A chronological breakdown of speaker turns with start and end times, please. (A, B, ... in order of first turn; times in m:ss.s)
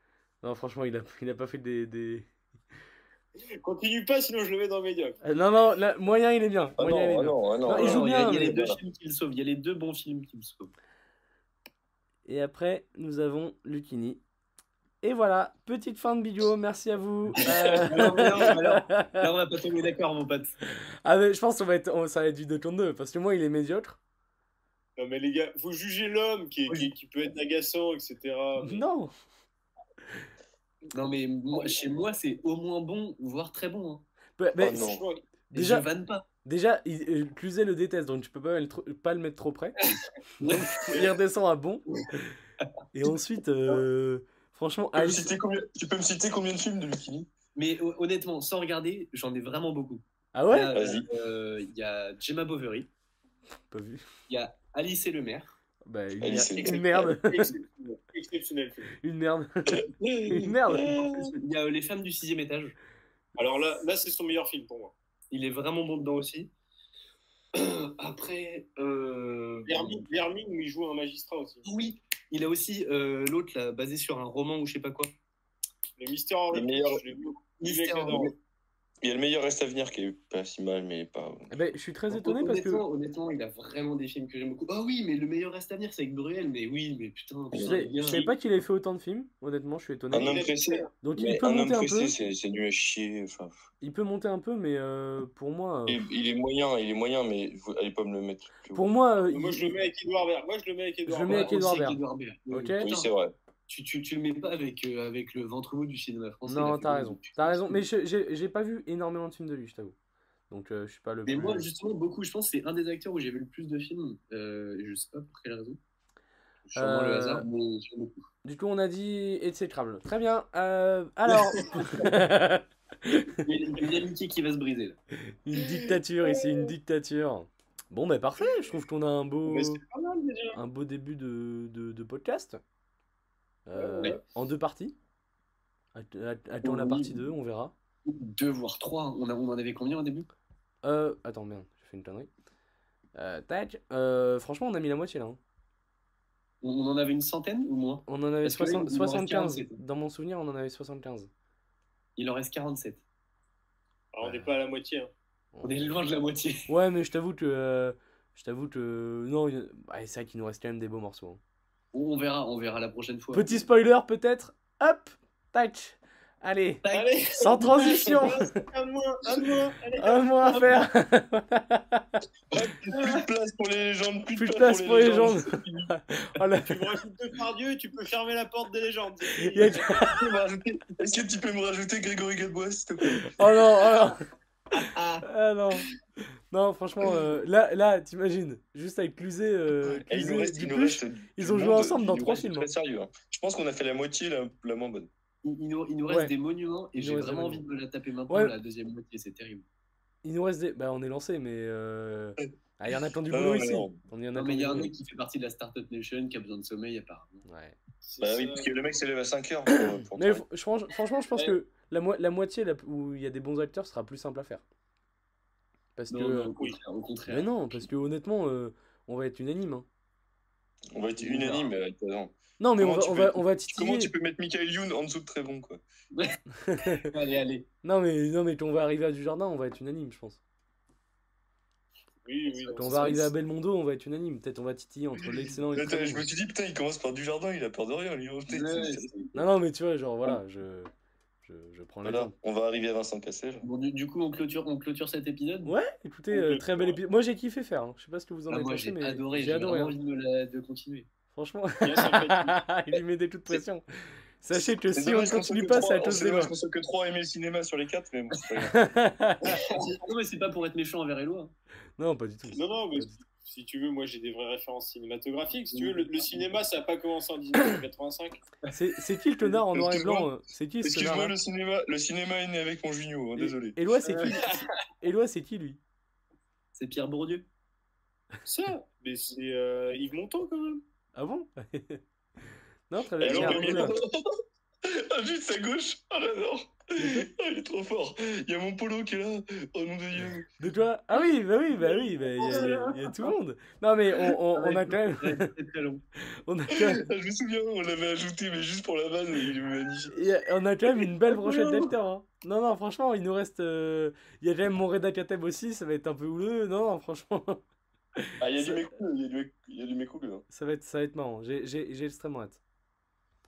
0:00.4-0:02.3 A
0:03.4-0:05.2 B
0:05.2-0:08.5 A
0:06.8-0:08.8 C
0:07.7-0:10.7 D
0:12.2-0:14.2 A
0:15.0-0:19.3 A
0:17.4-0:20.5 D
0:21.0-0:24.0 A
0:25.0-0:28.8 B
0:28.6-0:29.1 A
0:30.9-0:34.0 D
0:34.4-0:34.9 A
0:34.6-0:35.0 C
0:34.7-0:35.2 B
0:35.5-0:36.2 D
0:35.5-0:35.9 A
0:36.4-0:39.8 A
0:39.8-0:41.1 D
0:40.4-0:42.3 A
0:42.9-0:45.3 A
0:44.9-0:47.3 C
0:47.6-0:52.9 D
0:50.3-0:50.7 A
0:50.7-0:51.1 C
0:53.7-0:54.0 A
0:54.3-0:55.5 D
0:55.8-0:57.6 A
0:56.2-0:57.2 C
0:57.3-0:58.9 B
0:59.0-1:00.9 A
1:00.1-1:02.8 D
1:00.4-1:01.3 C
1:03.4-1:04.9 B
1:05.3-1:06.5 D
1:07.5-1:10.1 D
1:09.7-1:11.6 B
1:11.6-1:15.1 D
1:16.0-1:18.3 B
1:16.5-1:17.0 C
1:17.6-1:18.3 D
1:19.0-1:21.5 C
1:21.5-1:22.8 A
1:22.1-1:28.3 D
1:27.6-1:30.4 A
1:28.0-1:28.3 B
1:30.1-1:33.6 C
1:30.1-1:30.9 B
1:31.0-1:32.1 A
1:33.8-1:36.0 A
1:35.9-1:38.8 C
1:38.7-1:39.7 A
1:39.3-1:41.5 B
1:41.0-1:42.8 A
1:41.2-1:43.1 D
1:42.8-1:43.3 C
1:43.7-1:47.8 D
1:46.4-1:49.9 A
1:50.5-1:51.6 A
1:51.2-1:55.8 D
1:56.6-1:58.2 D
1:56.7-1:57.5 A
1:58.4-2:03.4 A
2:01.7-2:02.1 D
2:03.1-2:05.0 D
2:05.2-2:09.8 A
2:06.2-2:06.7 B
2:09.4-2:10.6 B
2:10.5-2:12.6 A
2:13.7-2:14.9 A
2:13.7-2:14.2 B
2:15.9-2:17.7 A
2:16.6-2:17.3 D
2:18.0-2:20.3 D
2:20.8-2:22.3 A
2:23.1-2:25.4 A
2:26.6-2:29.8 D
2:28.0-2:31.3 A
2:32.2-2:33.0 D
2:34.1-2:35.1 B
2:34.2-2:34.5 A
2:35.5-2:35.9 A
2:35.6-2:36.7 D
2:36.7-2:41.4 A
2:41.9-2:43.6 D
2:43.3-2:48.5 A
2:46.8-2:48.3 D
2:46.9-2:50.8 B
2:50.0-2:52.2 A
2:52.5-2:55.9 C
2:54.3-2:57.0 A
2:56.6-3:00.0 B
2:59.3-3:00.2 A
2:59.9-3:03.6 C
3:03.2-3:04.2 A
3:04.7-3:05.2 D
3:05.2-3:05.8 A
3:06.5-3:12.7 A
3:09.8-3:15.1 C
3:15.4-3:19.6 D
3:16.1-3:16.3 A
3:16.9-3:17.6 A
3:18.3-3:18.5 A
3:20.2-3:24.9 A
3:23.3-3:24.0 C
3:24.3-3:27.4 D
3:27.4-3:27.8 A
3:28.0-3:28.9 B
3:28.2-3:30.4 C
3:29.7-3:34.6 A
3:36.0-3:36.5 A
3:36.1-3:37.9 D
3:37.3-3:39.8 A
3:40.9-3:45.8 C
3:41.2-3:41.7 D
3:42.6-3:44.1 A
3:46.1-3:47.7 D
3:46.5-3:47.1 A
3:47.8-3:50.4 A
3:52.2-3:53.3 B
3:52.7-3:53.2 D
3:52.7-3:56.2 A
3:55.7-3:59.1 C
3:58.5-3:59.4 D
3:59.3-4:00.9 A
4:01.4-4:02.3 A
4:02.0-4:03.6 C
4:03.6-4:05.8 D
4:05.6-4:10.0 A
4:06.3-4:07.0 B
4:08.5-4:11.1 D
4:11.3-4:13.8 A
4:11.8-4:12.6 B
4:14.4-4:16.5 A
4:14.6-4:18.8 C
4:18.7-4:19.6 A
4:19.5-4:21.5 D
4:22.0-4:23.2 A
4:22.5-4:28.4 B
4:25.7-4:26.4 D
4:28.7-4:31.3 A
4:29.7-4:30.3 C
4:30.8-4:33.8 C
4:33.7-4:35.8 A
4:36.7-4:37.4 D
4:38.4-4:40.8 B
4:41.2-4:42.0 A
4:42.9-4:44.0 A
4:43.2-4:44.1 C
4:43.2-4:43.9 B
4:44.8-4:50.5 C
4:47.0-4:47.3 A
4:50.6-4:55.5 A
4:52.4-4:52.9 B
4:52.4-4:52.7 D
4:54.5-4:56.0 D
4:56.4-4:57.0 A
4:56.7-5:00.2 C
5:00.1-5:07.6 A
5:01.3-5:01.9 D
5:08.2-5:08.8 A
5:08.4-5:10.4 C
5:10.5-5:12.6 A